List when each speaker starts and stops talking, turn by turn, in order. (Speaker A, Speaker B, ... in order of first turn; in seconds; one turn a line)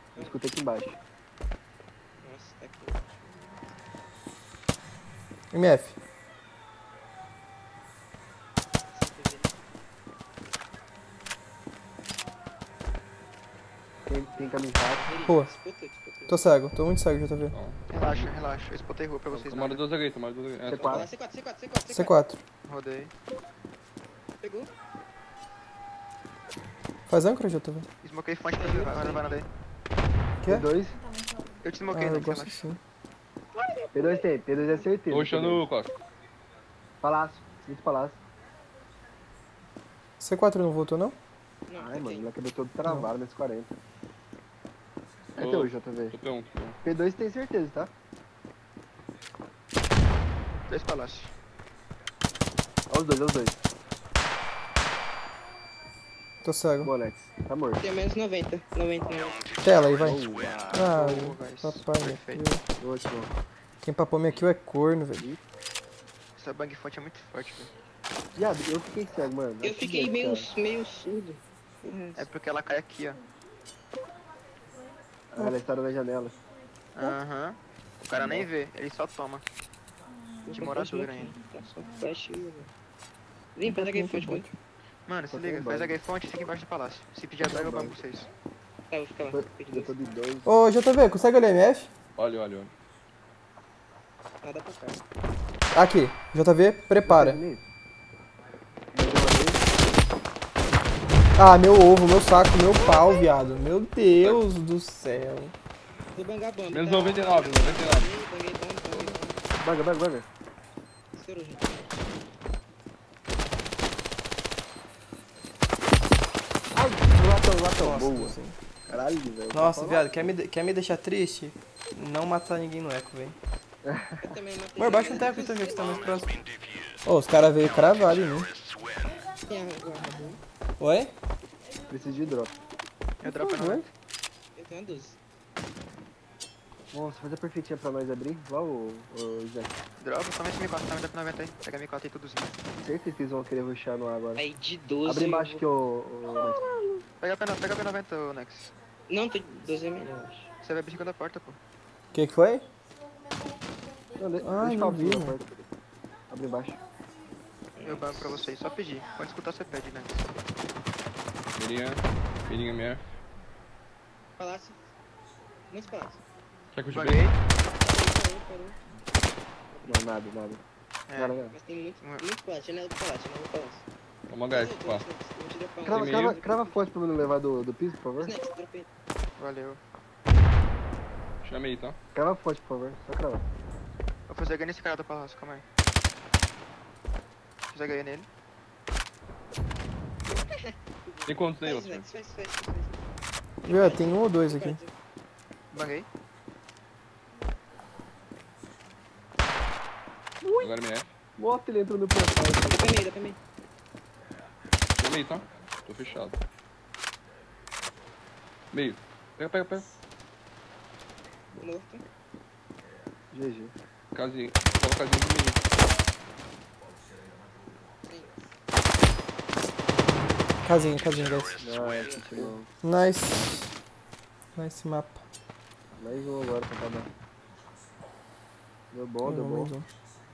Speaker A: 0.1-1.0
Speaker B: 2.2-3.8
Speaker C: 5.5-6.0
Speaker B: 8.9-9.6
Speaker A: 14.1-15.1
Speaker B: 14.3-16.4
Speaker C: 15.3-15.5
Speaker C: 16.3-17.6
Speaker D: 17.5-18.3
Speaker E: 17.9-19.8
Speaker D: 19.3-21.1
Speaker A: 20.6-21.1
Speaker B: 20.8-22.1
Speaker C: 21.9-22.4
Speaker E: 22.7-23.1
Speaker B: 24.4-24.7
Speaker C: 27.1-27.9
Speaker E: 28.0-29.5
Speaker B: 28.4-29.4
Speaker A: 30.5-31.0
Speaker E: 31.6-32.6
Speaker C: 31.9-32.8
Speaker B: 33.6-34.2
Speaker A: 33.9-35.7
Speaker D: 35.1-35.9
Speaker A: 37.0-38.2
Speaker C: 40.2-41.2
Speaker B: 41.7-42.3
Speaker A: 41.8-43.7
Speaker A: 45.4-46.2
Speaker D: 45.4-46.8
Speaker A: 46.8-47.9
Speaker E: 50.7-51.3
Speaker A: 52.9-53.6
Speaker C: 56.4-56.9
Speaker A: 56.8-57.8
Speaker B: 57.8-59.5
Speaker C: 59.6-62.6
Speaker A: 60.0-60.9
Speaker E: 60.7-62.4
Speaker A: 62.8-63.3
Speaker C: 63.8-65.3
Speaker E: 66.4-67.7
Speaker A: 68.4-70.5
Speaker B: 69.6-72.3
Speaker E: 72.2-73.2
Speaker A: 75.3-76.4
Speaker E: 77.0-79.4
Speaker A: 78.1-78.5
Speaker B: 80.4-82.7
Speaker E: 80.5-81.4
Speaker B: 83.5-84.5
Speaker C: 83.7-84.5
Speaker E: 85.1-88.3
Speaker A: 85.3-86.0
Speaker A: 87.4-88.0
Speaker B: 88.9-90.0
Speaker A: 89.3-90.5
Speaker C: 90.5-91.9
Speaker D: 92.2-92.7
Speaker B: 94.4-95.0
Speaker C: 95.7-97.4
Speaker A: 97.0-97.6
Speaker A: 98.9-99.6
Speaker C: 101.4-105.5
Speaker D: 104.1-104.5
Speaker B: 106.1-109.5
Speaker D: 106.7-108.1
Speaker D: 108.9-109.2
Speaker A: 109.6-110.3
Speaker B: 111.1-112.0
Speaker A: 116.7-120.3
Speaker C: 117.8-118.6
Speaker C: 119.5-123.4
Speaker A: 123.8-124.3
Speaker B: 124.2-126.1
Speaker C: 124.8-126.4
Speaker C: 127.0-128.5
Speaker B: 129.1-130.4
Speaker C: 130.8-131.1
Speaker A: 131.9-132.6
Speaker E: 133.2-133.9
Speaker A: 133.2-133.9
Speaker B: 134.6-135.2
Speaker A: 136.9-139.8
Speaker E: 140.0-142.6
Speaker A: 142.8-144.4
Speaker B: 144.4-145.6
Speaker A: 145.1-147.0
Speaker E: 147.2-148.7
Speaker B: 149.1-150.5
Speaker E: 150.6-151.6
Speaker C: 152.1-152.7
Speaker A: 154.2-155.6
Speaker C: 154.4-155.4
Speaker A: 156.3-156.8
Speaker B: 157.8-158.4
Speaker E: 157.8-160.3
Speaker D: 161.6-163.2
Speaker B: 164.4-164.9
Speaker B: 165.7-166.2
Speaker D: 166.7-167.3
Speaker E: 166.9-167.4
Speaker B: 167.8-168.8
Speaker B: 169.7-170.1
Speaker A: 169.9-170.6
Speaker E: 171.1-171.4
Speaker A: 171.2-171.6
Speaker B: 171.5-173.9
Speaker D: 174.3-175.1
Speaker B: 174.5-176.8
Speaker A: 175.8-178.3
Speaker D: 175.9-176.4
Speaker B: 178.2-178.9
Speaker E: 179.4-179.8
Speaker D: 181.4-182.0
Speaker A: 182.2-183.5
Speaker E: 184.3-185.6
Speaker E: 187.7-188.3
Speaker B: 190.5-193.0
Speaker D: 191.3-192.1
Speaker C: 193.7-194.8
Speaker B: 193.7-194.9
Speaker E: 195.7-196.1
Speaker A: 200.4-200.7
Speaker D: 200.6-201.1
Speaker A: 201.4-203.1
Speaker B: 202.5-203.4
Speaker D: 205.0-206.4
Speaker D: 208.7-209.9
Speaker B: 211.6-212.0
Speaker A: 213.3-213.7
Speaker D: 214.1-215.6
Speaker B: 218.0-218.4
Speaker C: 220.0-221.6
Speaker A: 221.6-222.7
Speaker B: 221.9-222.6
Speaker C: 222.8-223.7
Speaker C: 224.6-225.2
Speaker A: 226.0-227.1
Speaker A: 228.9-229.7
Speaker C: 229.2-229.9